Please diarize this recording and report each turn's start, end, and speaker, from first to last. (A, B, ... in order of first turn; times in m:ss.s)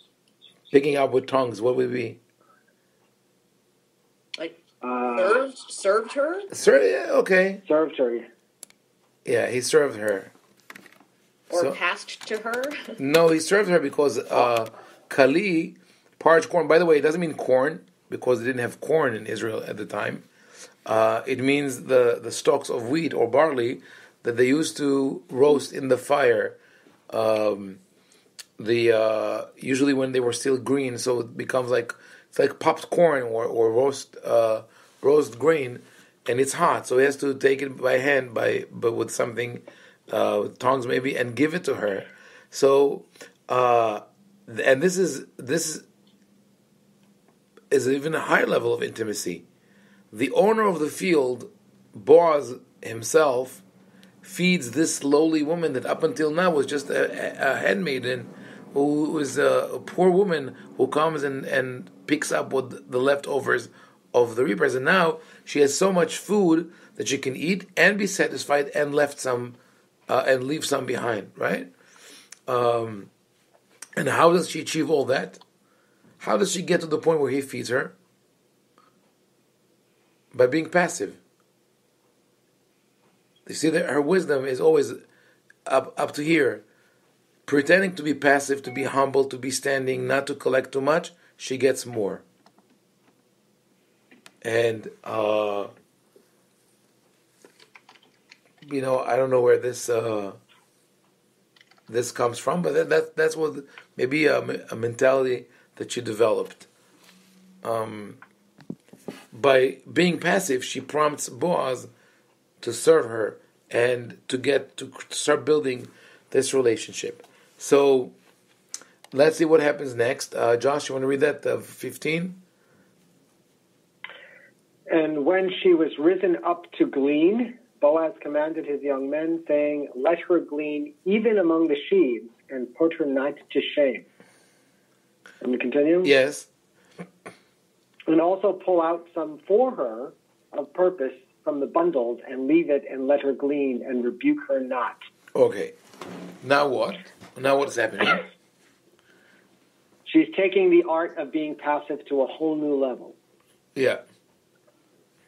0:00.7-0:02.2 A
0:04.8-0:05.4 B
0:05.1-0:06.5 C
0:06.5-0:07.6 A
0:07.7-0:08.3 B
0:09.2-0:10.3 A
0:11.5-0:12.9 C
0:11.5-0:11.8 A
0:13.0-0:20.3 A
0:20.9-0:26.6 A
0:27.1-0:27.8 A
0:28.6-0:45.8 A
0:47.7-0:49.4 A
0:50.1-0:53.6 A
0:54.2-1:09.6 A
1:10.1-1:11.7 A
1:12.5-1:13.1 A
1:14.0-1:15.4 A
1:16.2-1:17.9 A
1:20.3-1:21.2 A
1:23.5-1:25.0 A
1:25.7-1:26.6 A
1:27.5-1:32.2 A
1:34.4-1:35.7 A
1:38.6-1:40.4 A
1:41.9-1:46.7 A
1:47.6-1:48.2 A
1:49.3-1:51.9 A
1:52.6-1:58.1 A
1:59.1-2:02.4 A
2:04.9-2:14.0 B
2:15.4-2:16.1 B
2:16.0-2:16.5 A
2:18.1-2:25.0 B
2:25.4-2:25.8 A
2:26.4-2:28.2 A
2:30.1-2:33.2 B
2:33.8-2:34.0 A